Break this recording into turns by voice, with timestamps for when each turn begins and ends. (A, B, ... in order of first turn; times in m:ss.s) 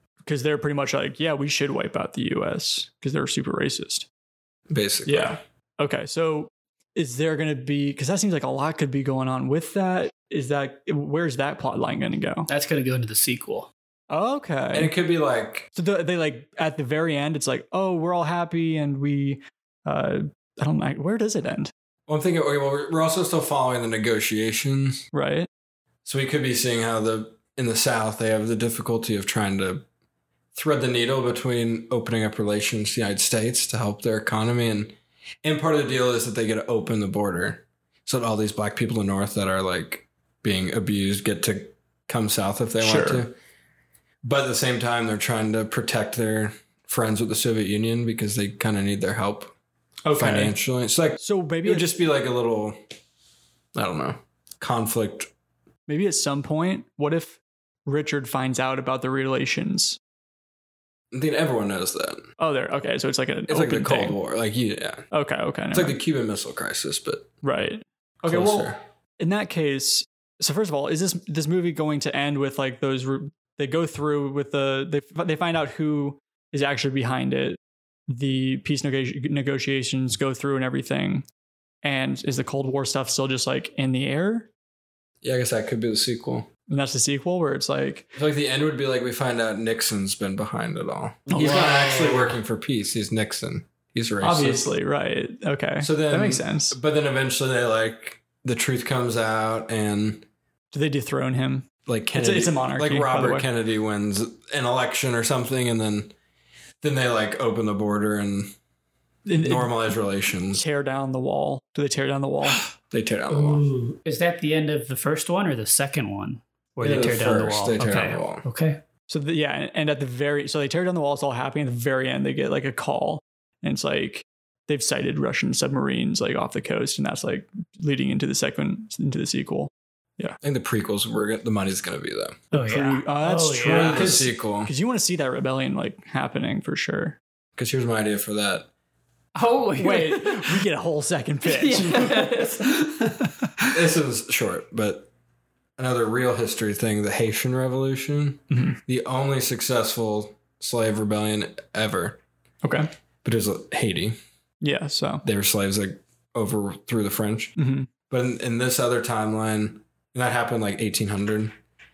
0:00.2-0:04.0 A
0:04.7-0:05.4 B
0:05.0-0:12.5 A
0:12.5-0:13.7 C
0:14.1-0:14.9 A
0:14.7-0:15.7 B
0:15.7-0:21.7 A
0:22.1-0:25.0 B
0:25.1-0:25.5 A
0:26.0-0:29.8 B
0:30.5-0:43.4 B
0:42.8-0:43.2 A
0:44.2-0:49.5 B
0:50.0-0:50.5 A
0:50.1-0:52.8 B
0:51.2-0:52.0 A
0:53.7-0:55.3 B
0:55.9-1:00.0 A
1:01.1-1:02.3 B
1:02.4-1:04.2 A
1:03.5-1:05.0 B
1:05.1-1:06.0 A
1:05.7-1:07.3 B
1:07.4-1:17.6 A
1:08.2-1:08.8 B
1:18.1-1:21.2 A
1:21.8-1:24.5 A
1:25.2-1:26.5 B
1:26.7-1:28.1 A
1:28.2-1:34.6 B
1:31.3-1:32.3 A
1:34.2-1:36.8 A
1:35.8-1:40.3 B
1:40.7-1:43.5 A
1:41.8-1:46.1 B
1:46.8-1:48.5 B
1:49.2-1:49.7 A
1:49.4-1:50.6 B
1:50.5-1:52.7 A
1:52.8-1:53.6 B
1:53.3-1:58.8 C
1:56.8-1:58.4 B
1:59.1-2:10.4 A
2:10.4-2:12.4 B
2:12.5-2:14.2 C
2:12.5-2:17.2 A
2:13.7-2:14.7 B
2:17.6-2:18.7 B
2:19.4-2:20.6 C
2:19.8-2:22.3 A
2:21.4-2:23.8 C
2:23.7-2:25.1 B
2:25.8-2:32.2 B
2:28.5-2:28.8 A
2:32.6-2:32.9 A
2:33.2-2:34.2 B
2:34.6-2:35.2 A
2:35.2-2:37.5 B
2:37.6-2:37.9 A
2:38.1-2:41.5 B